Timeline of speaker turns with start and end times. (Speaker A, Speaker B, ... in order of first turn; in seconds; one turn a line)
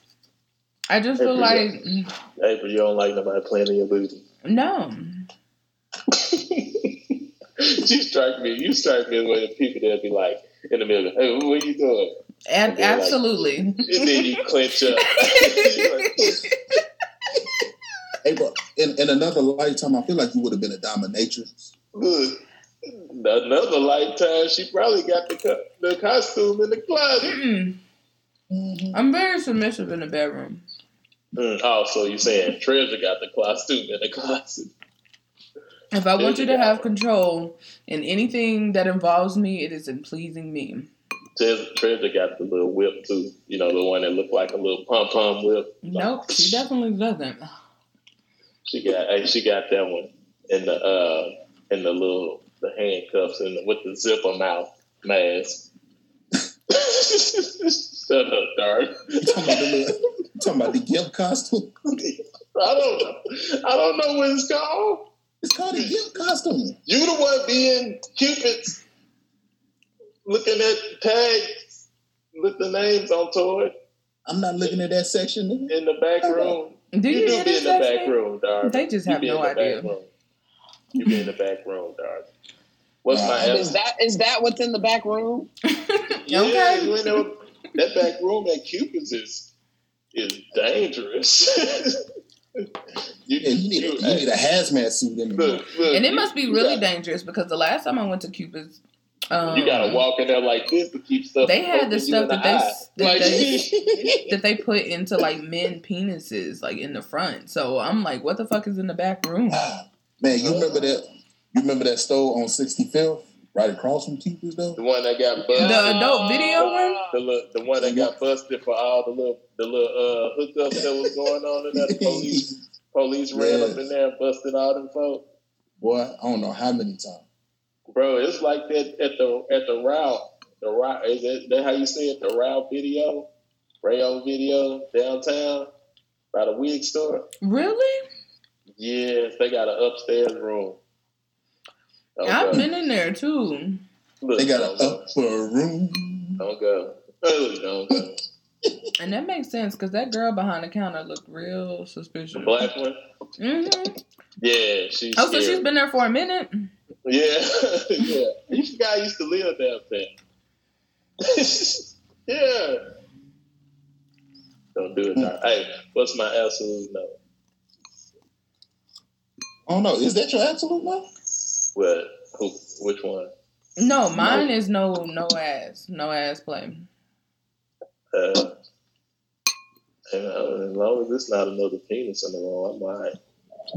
Speaker A: 0.9-2.1
Speaker B: 1.2-1.7
Speaker B: 2.4-4.2
Speaker A: 4.5-5.3
Speaker B: 6.1-12.2
Speaker A: 12.5-14.4
Speaker B: 12.7-13.2
Speaker B: 13.9-16.4
Speaker A: 15.1-16.6
Speaker C: 18.2-21.7
Speaker B: 21.9-27.4
Speaker A: 27.3-27.8
Speaker C: 28.5-29.0
Speaker A: 28.9-30.6
Speaker B: 31.4-34.7
Speaker A: 35.9-40.9
Speaker B: 36.2-36.9
Speaker B: 41.4-46.6
Speaker A: 45.8-47.5
Speaker B: 48.7-55.7
Speaker B: 56.7-59.9
Speaker C: 59.2-62.2
Speaker B: 62.6-65.1
Speaker C: 65.4-66.8
Speaker B: 65.7-66.0
Speaker B: 66.9-68.8
Speaker B: 70.3-71.8
Speaker B: 72.3-73.7
Speaker C: 74.3-76.6
Speaker B: 75.7-80.1
Speaker A: 76.9-79.9
Speaker B: 81.0-82.3
Speaker B: 83.0-83.8
Speaker C: 83.1-83.7
Speaker D: 83.4-85.5
Speaker A: 85.7-87.2
Speaker B: 86.3-89.5
Speaker B: 90.1-92.0
Speaker B: 93.3-94.3
Speaker C: 93.4-95.6
Speaker B: 95.4-96.8
Speaker A: 95.9-100.0
Speaker B: 99.5-104.2
Speaker A: 101.4-103.7
Speaker C: 103.2-104.1
Speaker A: 104.3-109.7
Speaker C: 109.5-114.8
Speaker B: 110.4-110.8
Speaker B: 114.8-125.3
Speaker D: 115.5-117.2
Speaker A: 115.6-117.0
Speaker C: 117.8-118.1
Speaker C: 120.7-121.1
Speaker C: 121.7-122.6
Speaker C: 123.3-123.8
Speaker C: 125.8-127.2
Speaker B: 127.9-133.3
Speaker B: 133.8-135.7
Speaker B: 136.3-137.3
Speaker A: 137.4-138.0
Speaker B: 138.8-140.8
Speaker B: 142.2-142.7
Speaker A: 142.2-143.8
Speaker B: 144.2-145.1
Speaker C: 144.4-146.4
Speaker B: 146.4-148.2
Speaker A: 149.0-152.6
Speaker B: 152.4-153.0
Speaker A: 153.4-154.0
Speaker B: 154.4-155.7
Speaker A: 155.2-156.7
Speaker B: 157.1-160.1
Speaker B: 161.2-162.8
Speaker B: 164.8-167.2
Speaker C: 169.7-171.1
Speaker B: 171.8-173.3
Speaker A: 173.8-176.9
Speaker B: 178.1-178.5
Speaker B: 180.1-183.1